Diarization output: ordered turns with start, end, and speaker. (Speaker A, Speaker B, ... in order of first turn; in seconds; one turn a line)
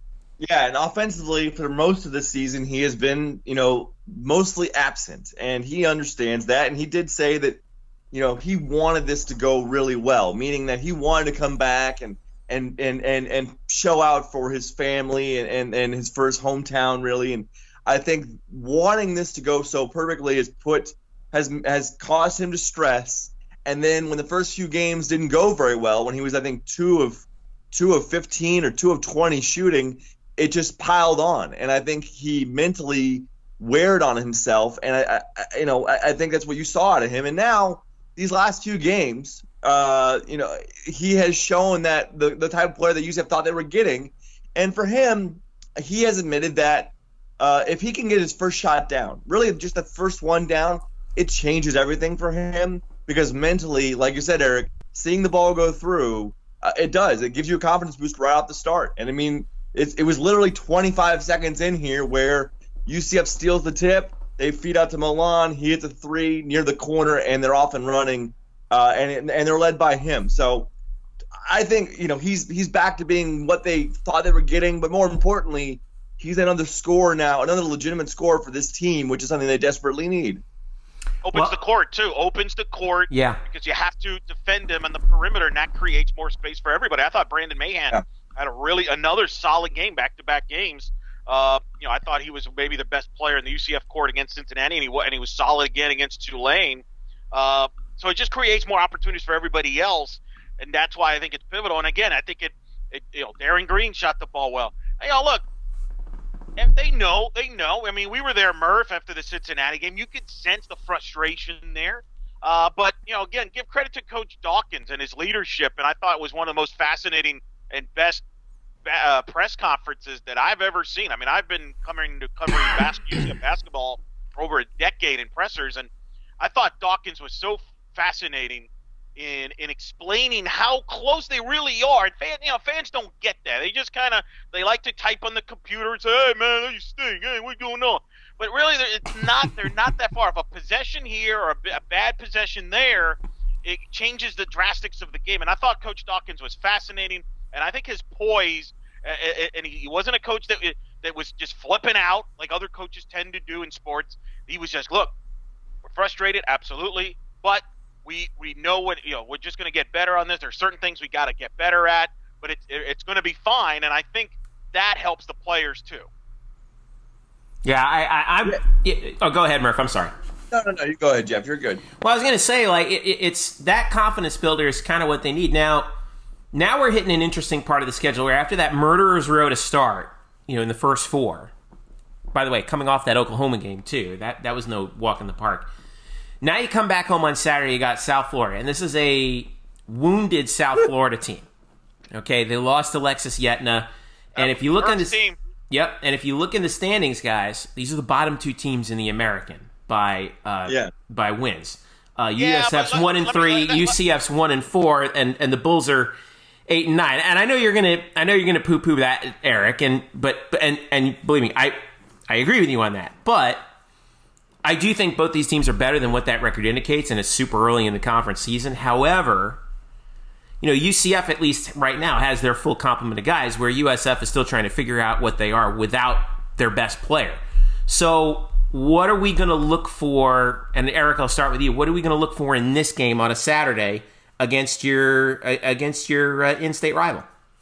Speaker A: 0.4-70.7
Speaker A: 71.5-80.4
Speaker B: 81.2-105.4
Speaker C: 83.1-83.4
Speaker B: 106.6-118.2
Speaker B: 118.8-125.9
Speaker B: 126.4-155.1
Speaker B: 155.8-166.1
Speaker C: 167.6-170.1
Speaker A: 170.5-171.8
Speaker C: 172.0-175.9
Speaker C: 176.5-181.5
Speaker C: 182.3-185.7
Speaker C: 186.4-191.5
Speaker C: 192.1-195.2
Speaker B: 194.3-195.4
Speaker C: 195.7-206.1
Speaker B: 202.4-203.9
Speaker C: 206.7-211.8
Speaker C: 212.3-213.6
Speaker C: 214.6-219.6
Speaker C: 220.6-237.3